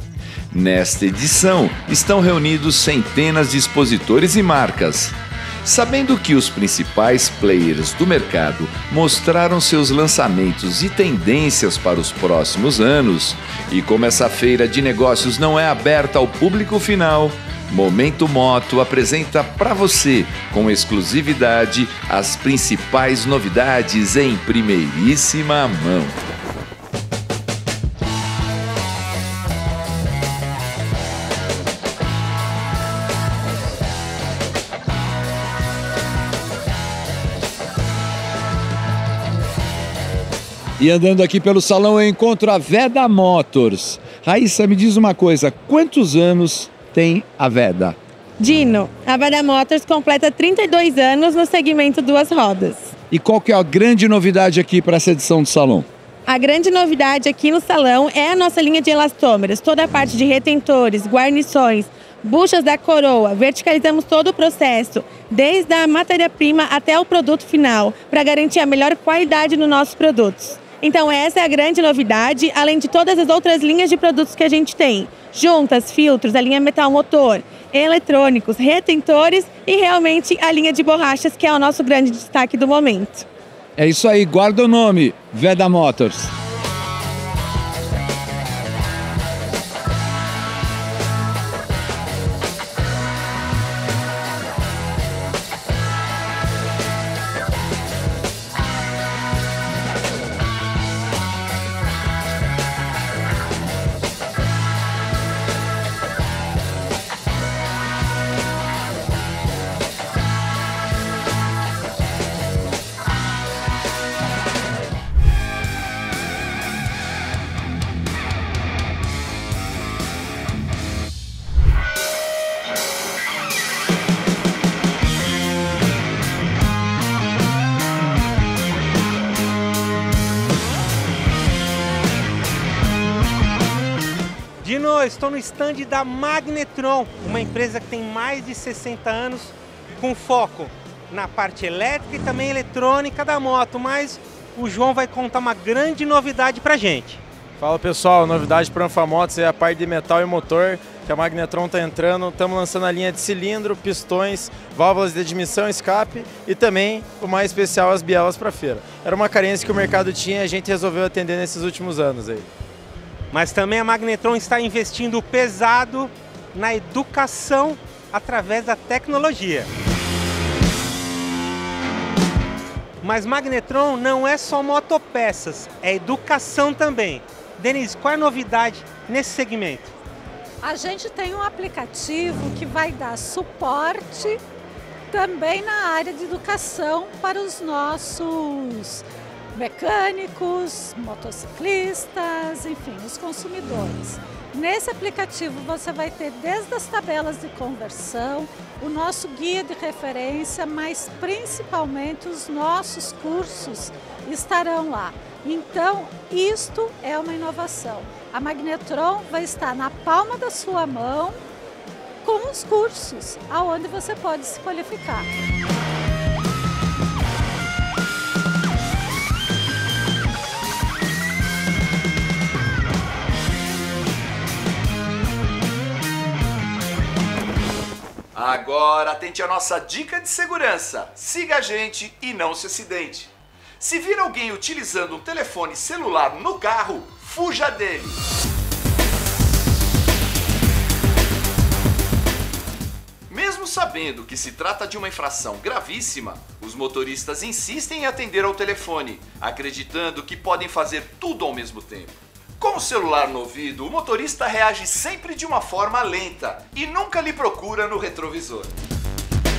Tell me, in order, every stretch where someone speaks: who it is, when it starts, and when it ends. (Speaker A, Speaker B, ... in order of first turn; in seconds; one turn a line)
Speaker A: 0.5-26.2
Speaker A: 40.8-48.0
Speaker B: 48.4-52.9
Speaker A: 53.1-55.9
Speaker B: 56.3-83.3
Speaker A: 83.8-86.3
Speaker C: 134.6-147.2
Speaker D: 147.6-162.5
Speaker C: 163.3-169.7
Speaker C: 173.0-179.9
Speaker E: 180.6-184.4
Speaker E: 185.1-189.0
Speaker E: 189.6-211.4
Speaker E: 212.2-215.3
Speaker A: 228.3-238.2
Speaker A: 243.3-258.7